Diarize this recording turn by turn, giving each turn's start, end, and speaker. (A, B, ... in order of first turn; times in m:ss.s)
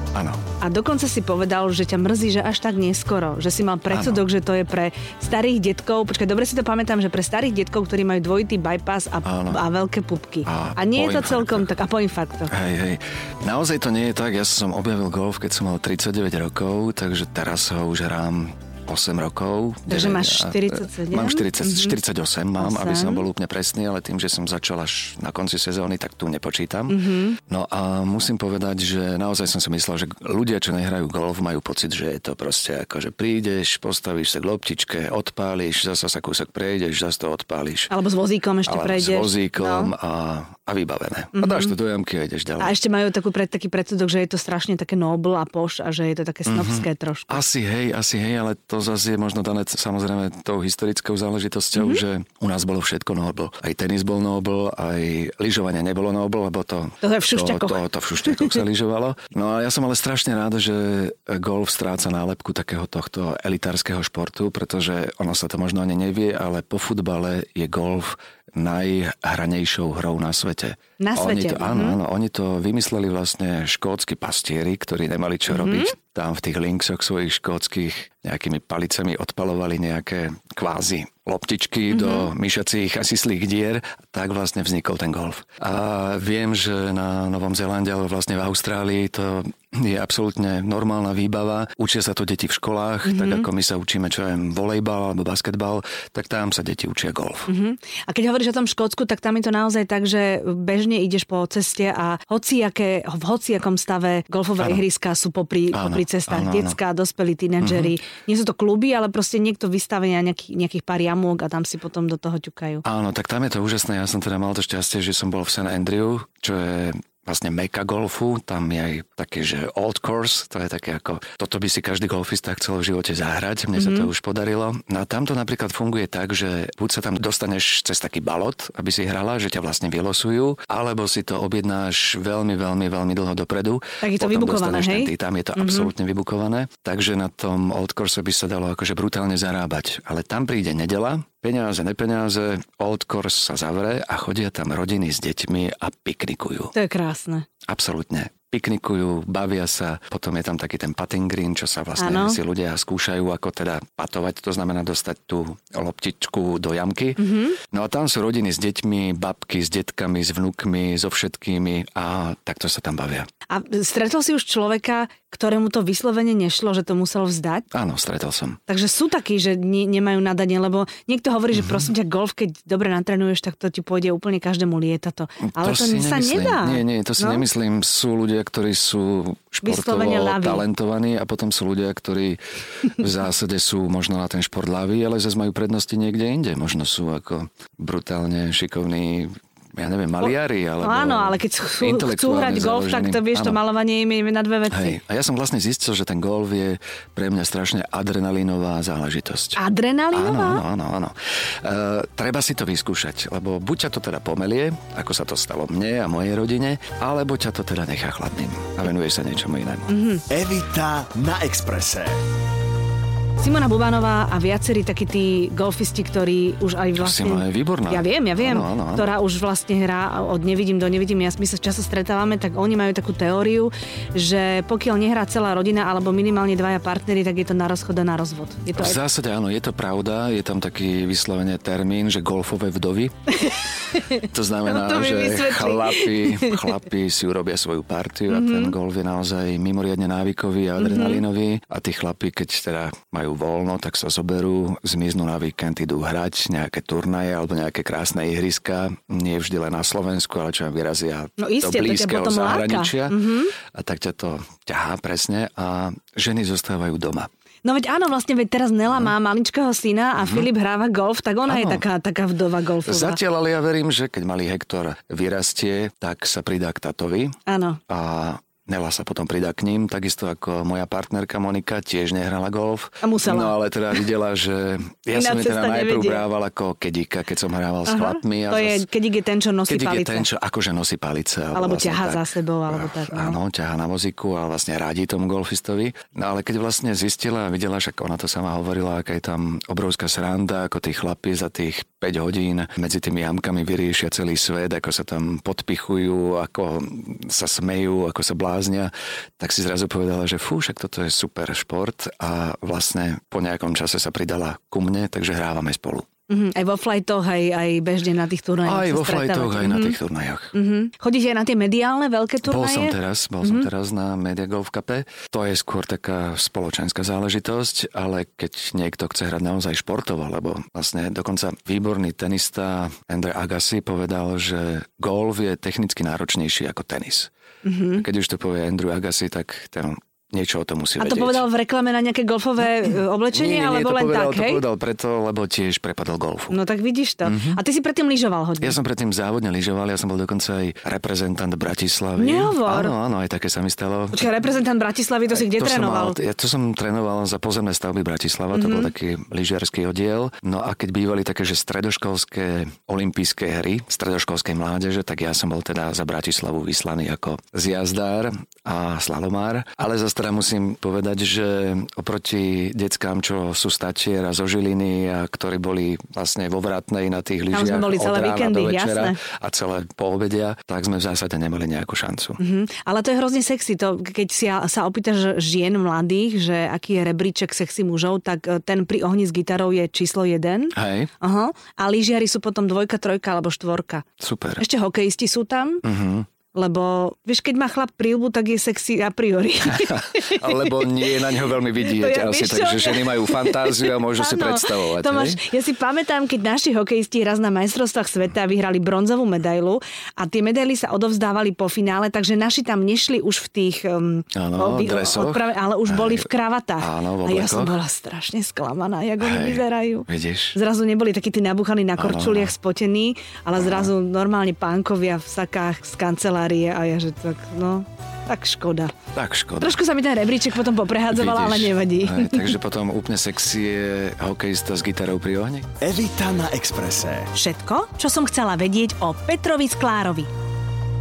0:00.1-0:00.4 A
0:00.6-0:12.5 B
0:03.9-0:04.2 A
0:09.2-0:09.6 A
0:10.4-0:11.7 A
0:12.5-0:37.9 A
0:19.9-0:22.0 B
0:22.6-0:23.2 B
0:26.9-0:27.4 B
0:37.9-0:39.9 B
0:38.6-0:42.8 A
0:41.3-0:41.7 B
0:42.6-0:47.4 B
0:46.4-1:37.5 A
0:51.8-0:52.0 B
0:57.0-0:58.6 B
1:11.0-1:12.0 B
1:15.5-1:15.9 B
1:21.9-1:22.3 B
1:33.0-1:33.5 B
1:37.5-1:52.8 B
1:45.7-1:46.8 A
1:47.6-1:47.9 A
1:52.8-2:26.7 A
2:03.7-2:04.1 B
2:14.0-2:15.9 B
2:26.7-2:27.4 B
2:27.7-2:43.3 A
2:32.0-2:32.4 B
2:37.2-2:37.6 B
2:43.5-2:47.6 B
2:47.7-2:48.6 A
2:48.7-2:57.4 B
2:55.5-3:13.6 A
2:59.6-3:00.6 B
3:10.2-3:15.0 B
3:14.7-3:19.6 A
3:19.6-3:20.6 B
3:20.1-3:29.9 A
3:29.9-3:30.2 B
3:30.3-3:32.2 C
3:33.4-3:49.0 B
3:37.0-3:39.1 A
3:48.7-3:53.1 A
3:53.4-3:56.6 B
3:54.2-4:17.3 A
3:58.3-3:58.7 B
4:00.8-4:01.2 B
4:11.4-4:13.5 B
4:17.6-4:23.2 B
4:20.2-4:20.5 A
4:21.5-4:21.8 A
4:22.8-4:27.4 A
4:27.4-4:27.8 B
4:27.9-4:38.8 A
4:33.0-4:33.6 B
4:35.1-4:36.2 B
4:37.8-4:40.3 B
4:39.7-5:06.1 A
4:41.5-4:43.4 B
5:06.3-5:10.0 B
5:08.6-5:10.5 A
5:10.5-5:13.7 B
5:12.4-5:27.3 A
5:27.6-5:28.0 B
5:28.0-5:31.4 A
5:31.0-5:34.6 B
5:32.8-5:36.6 A
5:36.5-5:38.8 B
5:37.2-5:37.6 A
5:38.6-5:44.3 A
5:42.2-5:42.9 B
5:44.1-5:46.2 B
5:45.3-6:12.4 A
5:48.5-5:48.9 B
6:07.5-6:09.2 B
6:12.4-6:24.0 B
6:20.7-6:21.1 A
6:24.2-6:24.6 A
6:24.6-6:25.8 B
6:25.8-6:26.3 A
6:26.5-6:59.0 B
6:29.6-6:35.4 A
6:44.3-6:46.2 A
6:46.8-6:47.8 A
6:49.2-6:50.6 A
6:52.0-6:52.5 A
6:53.6-6:53.9 A
6:59.1-6:59.8 A
6:59.6-7:02.6 B
7:01.1-7:05.7 A
7:05.8-7:07.3 C
7:07.3-7:10.3 B